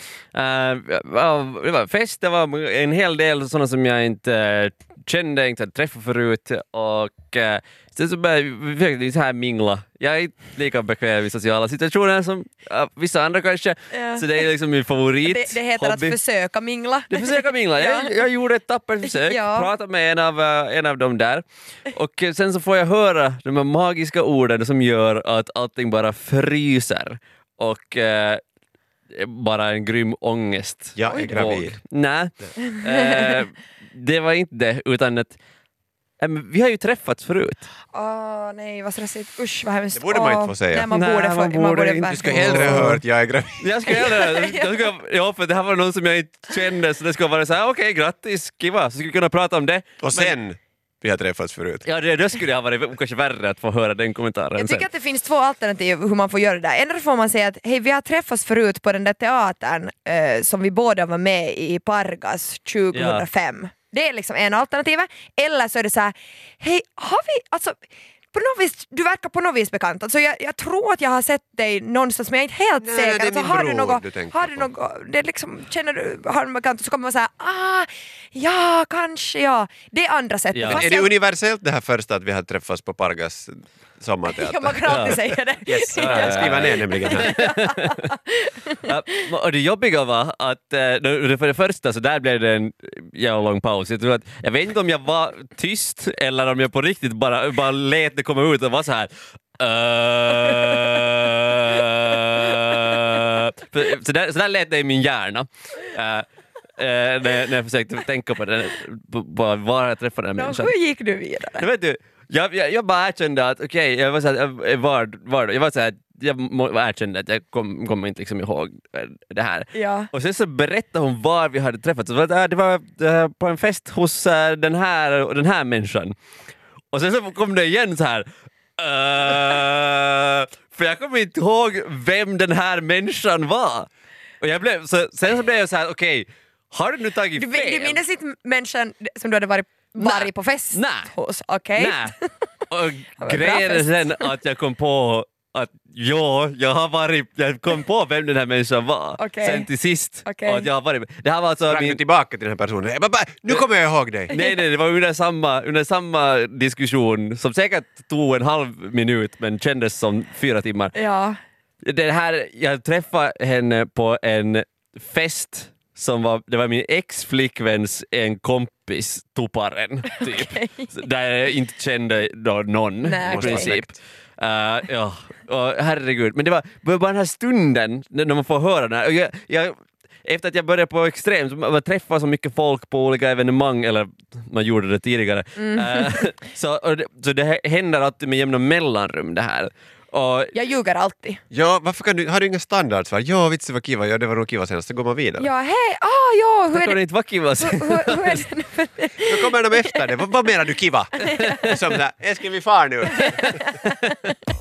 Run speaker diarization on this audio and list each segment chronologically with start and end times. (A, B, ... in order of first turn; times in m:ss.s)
0:00.4-0:16.2 A
0:13.9-0:14.5 B
0:15.2-0:18.2 B
0:17.1-0:28.4 A
0:19.0-0:19.7 B
0:29.1-0:35.4 A
0:31.0-0:31.8 C
0:32.7-0:33.4 B
0:36.2-0:37.7 A
0:37.9-0:42.6 B
0:40.0-0:40.9 C
0:40.9-0:43.0 A
0:42.1-0:43.7 C
0:43.6-0:50.4 A
0:43.8-0:44.8 B
0:50.0-0:51.8 C
0:51.8-0:54.9 A
0:54.6-1:07.8 B
1:02.9-1:03.3 A
1:08.3-1:21.1 B
1:12.8-1:14.7 C
1:20.5-1:20.9 A
1:20.7-1:27.4 C
1:24.3-1:28.9 B
1:24.9-1:25.2 A
1:26.0-1:28.1 A
1:28.8-1:46.3 A
1:46.8-1:50.7 A
1:50.4-1:51.7 B
1:51.6-2:06.2 A
1:59.7-2:00.1 B
2:06.9-2:13.9 A
2:14.4-2:18.0 A
2:17.4-2:22.3 B
2:20.0-2:21.1 A
2:21.8-2:22.2 A
2:22.7-2:32.0 A
2:23.2-2:24.3 B
2:29.2-2:29.7 B
2:30.2-2:30.7 B
2:31.7-2:34.4 C
2:34.3-2:41.0 A
2:41.0-2:41.4 B
2:41.8-3:10.5 A
2:50.2-2:50.9 B
2:53.0-2:53.7 B
2:53.2-2:54.0 C
3:05.6-3:06.2 B
3:10.5-3:11.4 B
3:11.5-3:15.5 C
3:15.4-3:17.0 B
3:16.7-3:18.4 A
3:17.6-3:20.0 B
3:19.3-3:23.6 C
3:21.2-3:21.7 B
3:21.3-3:21.7 A
3:23.2-3:23.7 B
3:23.8-3:24.3 A